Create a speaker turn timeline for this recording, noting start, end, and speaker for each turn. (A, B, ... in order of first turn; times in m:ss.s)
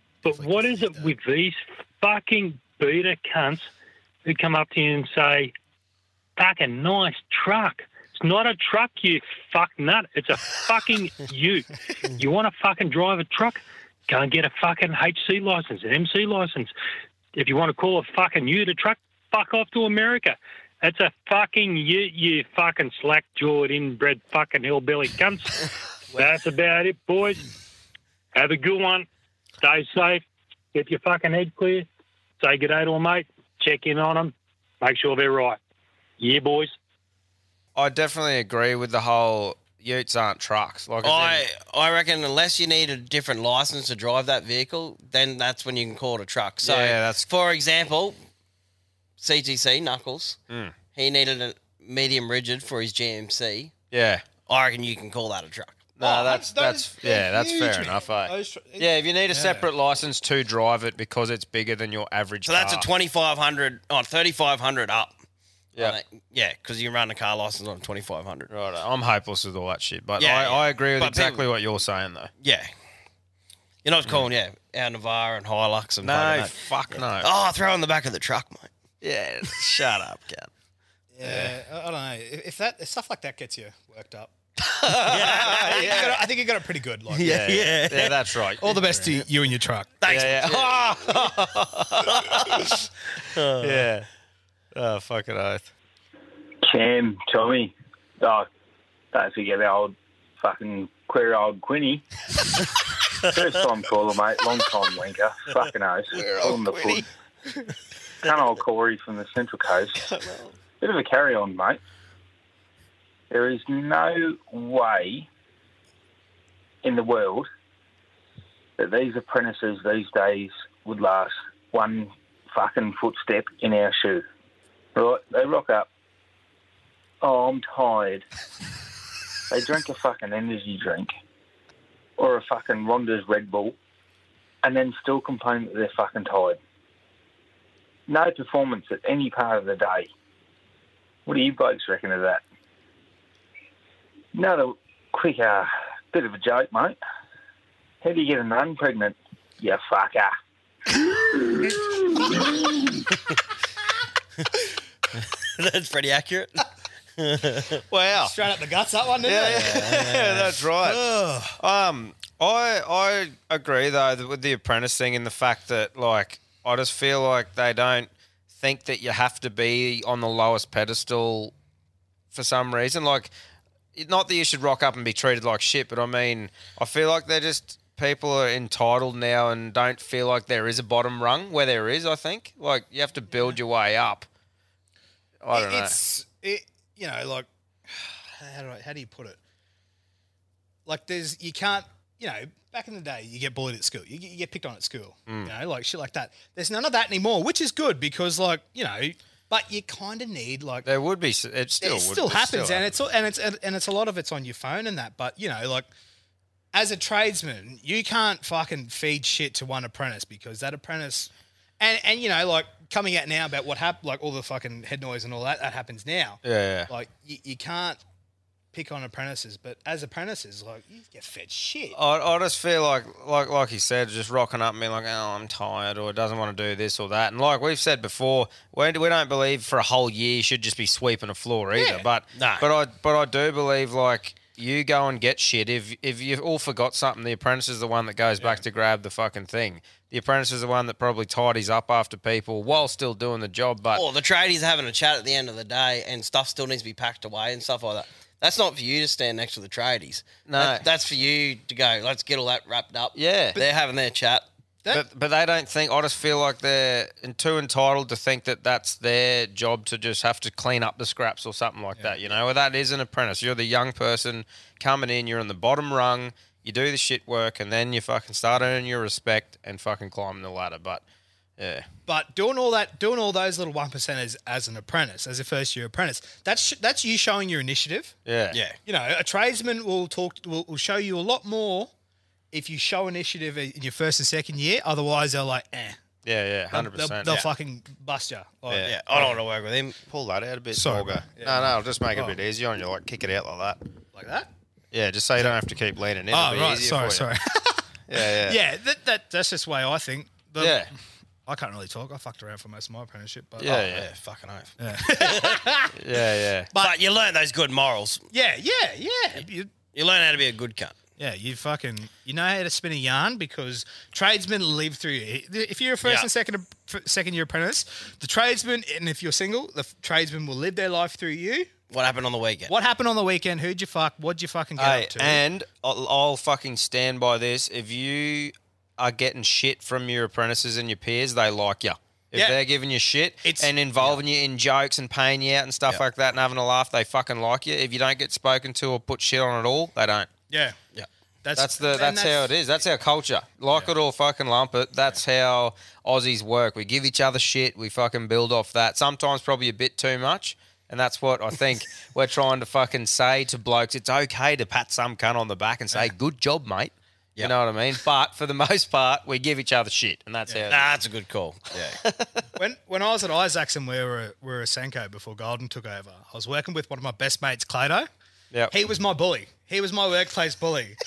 0:00.2-0:03.7 A
0:04.3-0:05.5 A
0:06.4-0:16.7 A
0:17.4-0:27.4 A
0:28.4-0:29.1 A
0:29.6-0:31.9 A
0:32.4-0:35.6 A
0:36.2-0:36.7 A
0:37.8-0:41.4 B
0:41.0-0:48.2 C
0:46.6-0:47.3 B
0:49.2-0:50.4 C
0:51.0-0:53.7 C
0:53.9-0:54.2 B
0:54.5-0:55.8 C
0:56.0-1:02.9 B
0:56.0-0:59.7 D
1:02.4-1:05.2 C
1:05.8-1:08.5 C
1:08.5-1:12.3 B
1:10.2-1:11.4 C
1:12.4-1:12.7 C
1:13.8-1:18.7 C
1:16.0-1:17.3 B
1:19.0-1:20.5 B
1:21.1-1:24.3 D
1:24.9-1:25.6 C
1:24.9-1:26.3 B
1:25.2-1:27.4 D
1:27.1-1:28.2 C
1:27.2-1:29.3 B
1:28.6-1:29.9 D
1:30.0-1:31.0 C
1:30.1-1:32.8 B
1:32.1-1:32.4 C
1:33.4-1:33.8 C
1:33.6-1:34.1 B
1:34.7-1:35.7 B
1:36.6-1:38.5 E
1:39.1-1:42.0 E
1:43.3-1:47.1 E
1:46.1-1:47.0 B
1:48.2-1:50.0 E
1:50.1-1:50.5 B
1:50.8-1:51.8 E
1:53.3-1:55.3 E
1:56.8-1:57.5 E
1:58.8-2:04.2 E
2:05.0-2:05.9 E
2:07.2-2:08.3 E
2:09.5-2:11.1 E
2:12.2-2:13.8 E
2:14.6-2:16.6 E
2:18.1-2:20.1 E
2:21.3-2:22.4 E
2:24.3-2:27.0 E
2:28.0-2:30.3 E
2:35.2-2:36.6 C
2:37.2-2:37.8 C
2:37.9-2:38.4 B
2:38.2-2:39.9 D
2:39.2-2:41.0 B
2:39.5-2:40.6 C
2:40.8-2:41.6 D
2:41.6-2:51.5 B
2:52.3-2:53.3 B
2:54.0-3:04.3 B
3:05.4-3:06.0 B
3:05.5-3:09.4 D
3:10.9-3:20.9 D
3:15.3-3:15.5 B
3:20.8-3:23.0 B
3:21.8-3:25.9 D
3:26.7-3:38.0 D
3:36.4-3:36.9 B
3:38.7-3:42.0 D
3:41.9-4:04.0 B
3:51.7-3:52.0 D
3:52.3-3:52.7 C
4:04.0-4:14.4 C
4:10.5-4:10.8 B
4:13.2-4:13.6 B
4:14.9-4:31.0 B
4:31.6-4:31.9 B
4:32.1-4:38.1 D
4:38.3-4:38.6 B
4:38.5-4:38.8 C
4:38.8-4:41.9 D
4:42.5-4:46.0 D
4:46.2-4:47.5 B
4:46.7-4:49.4 D
4:48.8-4:50.0 C
4:50.1-4:53.8 B
4:50.7-4:52.4 D
4:54.1-4:54.5 D
4:54.9-4:57.3 B
4:56.3-4:57.9 D
4:58.1-4:58.6 B
4:58.4-5:00.9 D
5:00.6-5:00.9 B
5:01.5-5:03.8 D
5:03.6-5:04.0 B
5:03.6-5:05.6 C
5:04.8-5:06.0 D
5:06.0-5:06.7 B
5:06.8-5:08.2 C
5:08.3-5:09.7 D
5:09.9-5:11.0 C
5:11.2-5:21.7 D
5:21.9-5:22.7 C
5:22.7-5:25.4 D
5:24.8-5:40.3 B
5:32.3-5:32.6 D
5:33.4-5:33.7 D
5:40.5-5:40.8 D
5:41.4-5:42.5 D
5:41.6-6:00.9 B
6:00.7-6:02.0 C
6:02.0-6:02.3 B
6:02.6-6:08.1 D
6:08.7-6:11.0 D